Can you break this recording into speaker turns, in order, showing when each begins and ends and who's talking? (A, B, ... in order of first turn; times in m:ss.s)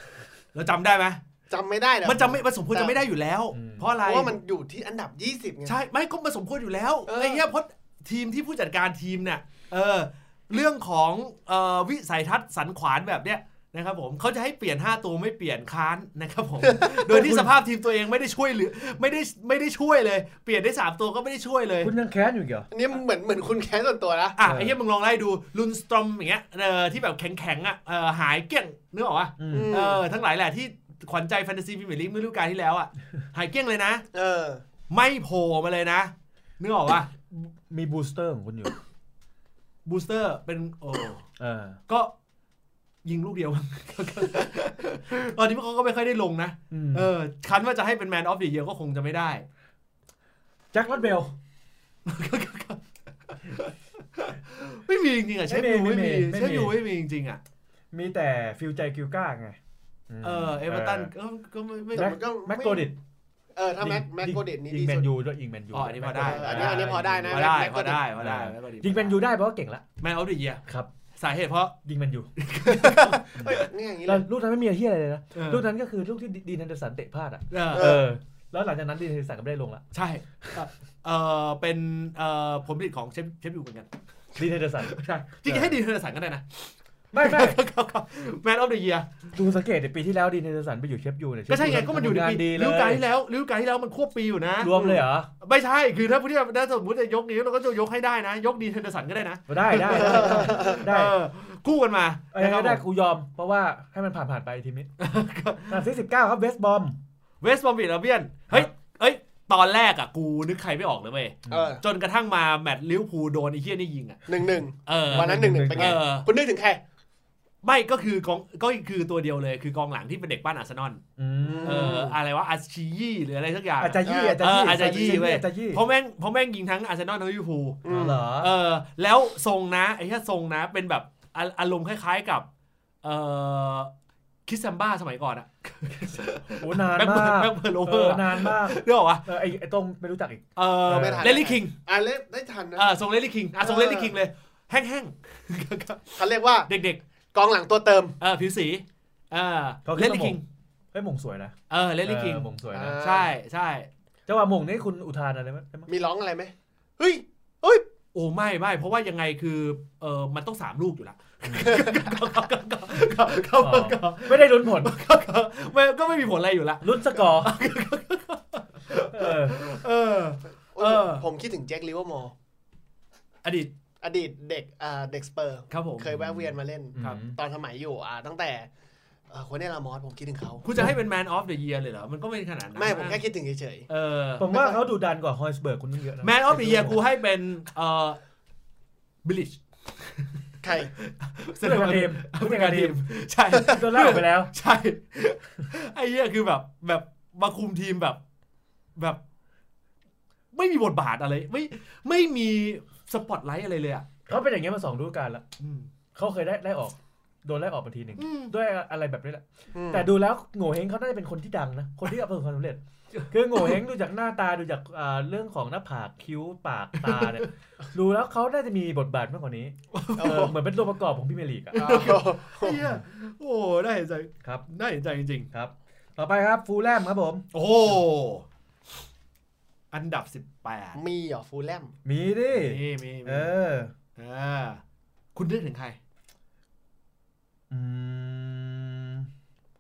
0:00.5-0:01.2 A
0:01.5-0:03.0 B
0:02.0-0:04.4 A
0:03.5-0:03.9 C
0:04.0-0:05.8 B
0:05.6-0:21.9 A
0:07.1-0:07.4 B
0:16.6-0:17.1 B
0:17.1-0:17.5 C
0:21.8-0:22.7 C
0:22.7-0:24.4 B
0:24.4-0:34.0 A
0:24.4-0:24.7 C
0:29.4-0:29.8 C
0:29.5-0:30.0 B
0:34.1-0:34.6 B
0:34.9-0:37.1 A
0:37.3-0:38.8 C
0:39.8-0:41.2 A
0:41.4-0:41.8 C
0:43.0-0:49.4 A
0:46.7-0:47.1 C
0:50.7-0:51.3 C
0:52.0-0:57.4 A
0:55.5-0:56.8 C
0:57.9-0:59.6 C
1:00.1-1:01.1 C
1:00.2-1:02.2 A
1:01.9-1:02.9 B
1:02.0-1:03.0 C
1:03.6-1:05.1 B
1:03.8-1:07.4 C
1:05.7-1:09.2 A
1:06.2-1:08.0 B
1:08.2-1:09.8 C
1:10.0-1:10.6 A
1:10.7-1:10.9 C
1:11.2-1:11.8 A
1:11.8-1:12.3 C
1:12.4-1:13.7 A
1:12.8-1:14.2 B
1:13.4-1:19.8 C
1:15.3-1:15.6 A
1:17.5-1:18.0 A
1:17.7-1:18.1 B
1:19.9-1:23.9 A
1:24.4-1:25.8 C
1:24.8-1:29.1 A
1:27.1-1:27.6 C
1:29.3-1:33.0 C
1:31.5-1:34.8 A
1:34.6-1:35.3 C
1:35.4-1:42.8 A
1:39.5-1:41.2 C
1:39.9-1:40.8 B
1:42.3-1:44.9 C
1:45.0-1:45.8 A
1:45.7-1:47.0 C
1:47.4-1:54.3 A
1:51.5-1:51.8 C
1:51.5-1:51.8 B
1:54.3-1:56.8 B
1:54.8-1:56.3 A
1:55.1-1:56.0 C
1:57.6-2:01.0 A
2:01.2-2:02.0 C
2:01.4-2:02.2 B
2:01.6-2:12.5 A
2:03.8-2:05.8 C
2:04.0-2:05.2 B
2:07.8-2:08.2 B
2:07.9-2:08.5 C
2:13.0-2:13.9 A
2:14.5-2:19.2 A
2:16.6-2:21.4 C
2:20.6-2:21.7 A
2:20.9-2:22.9 B
2:22.8-2:27.0 A
2:23.6-2:24.1 B
2:26.2-2:26.7 B
2:27.3-2:28.2 B
2:28.2-2:30.4 A
2:29.8-2:30.4 C
2:30.9-2:33.0 C
2:31.7-2:33.9 A
2:32.7-2:33.3 B
2:34.3-2:35.9 C
2:35.9-2:37.8 B
2:38.1-2:51.2 A
2:41.6-2:42.2 B
2:43.6-2:45.0 C
2:46.8-2:47.6 C
2:49.1-2:49.6 C
2:50.8-2:52.3 B
2:53.4-2:53.7 A
2:54.0-2:58.7 B
2:55.7-2:56.4 A
2:57.0-2:57.4 C
2:59.3-3:00.7 B
3:00.6-3:03.2 A
3:02.8-3:03.9 B
3:03.9-3:04.5 A
3:04.4-3:07.0 C
3:04.5-3:04.8 B
3:06.2-3:08.2 A
3:09.2-3:10.4 A
3:10.6-3:10.9 B
3:11.0-3:18.2 A
3:11.6-3:14.5 C
3:19.0-3:19.2 A
3:20.5-3:24.1 A
3:24.3-3:25.4 C
3:25.6-3:25.9 A
3:26.2-3:41.9 C
3:28.2-3:28.5 A
3:29.7-3:30.1 B
3:37.0-3:37.5 A
3:39.9-3:40.5 A
3:40.2-3:40.5 B
3:41.8-3:42.8 B
3:41.8-3:45.5 A
3:45.5-3:47.5 C
3:47.5-3:48.4 A
3:49.9-3:51.0 A
3:51.0-3:51.9 B
3:52.0-3:53.9 C
3:52.5-3:53.5 A
3:54.2-3:54.8 A
3:55.4-3:56.0 A
3:57.7-3:59.3 C